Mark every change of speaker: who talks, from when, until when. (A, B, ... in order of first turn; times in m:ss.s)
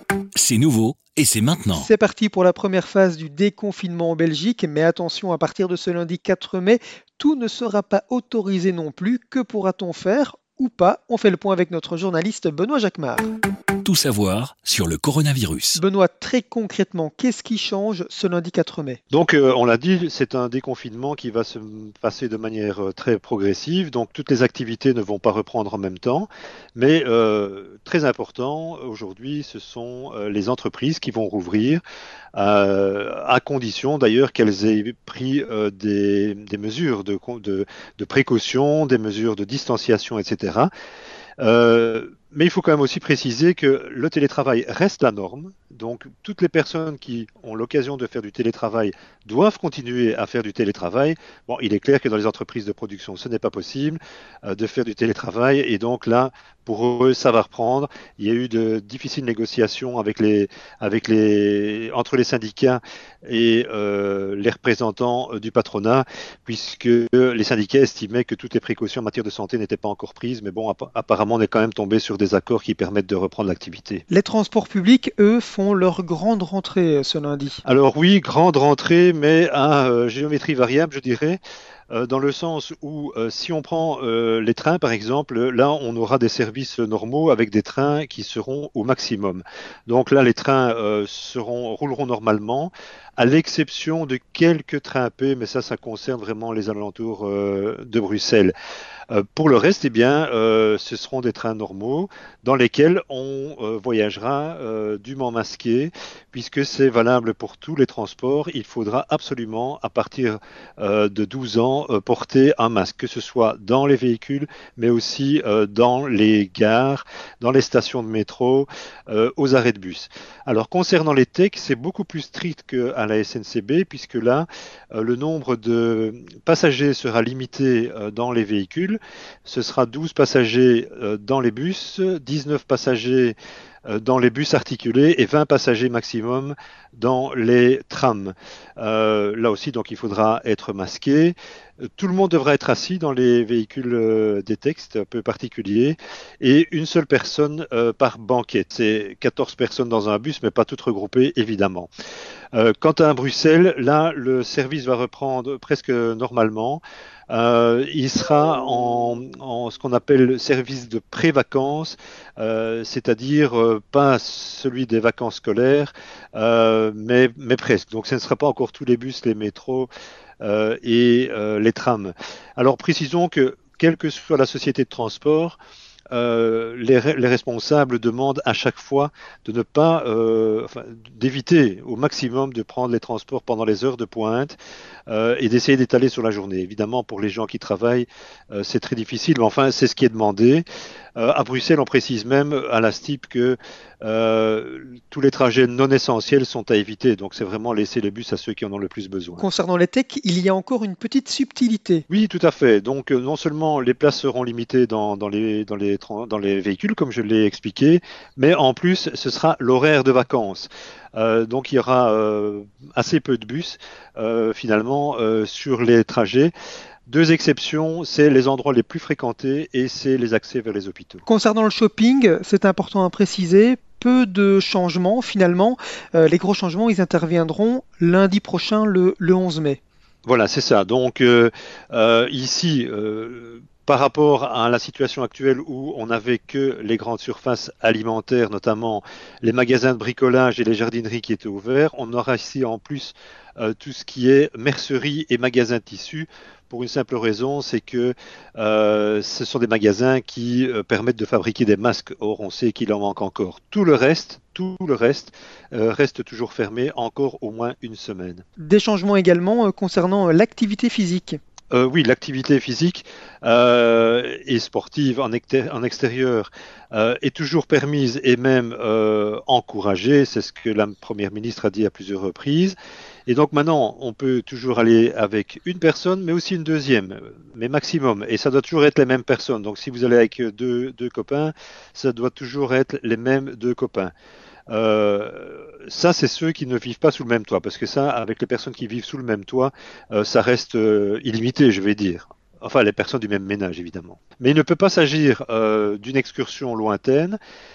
0:00.4-0:01.9 A
0:01.7-0:13.3 B
0:13.8-0:15.8 A
0:15.8-0:19.0 B
0:19.1-0:31.8 C
0:32.3-0:40.7 C
0:41.4-1:14.0 C
1:14.1-1:17.6 B
1:17.6-1:21.4 C
1:21.9-1:38.5 C
1:39.1-2:13.4 C
2:13.9-2:21.4 C
2:22.0-2:31.9 C
2:32.5-2:49.9 C
2:50.4-2:55.6 C
2:56.1-3:04.6 C
3:05.1-3:10.6 C
3:11.2-3:19.4 C
3:19.4-3:22.0 B
3:22.1-3:36.5 C
3:37.1-3:41.2 C
3:41.2-3:49.8 B
3:50.2-4:18.4 C
4:18.6-4:21.4 B
4:21.7-4:32.7 C
4:33.3-4:44.1 C
4:44.7-4:57.4 C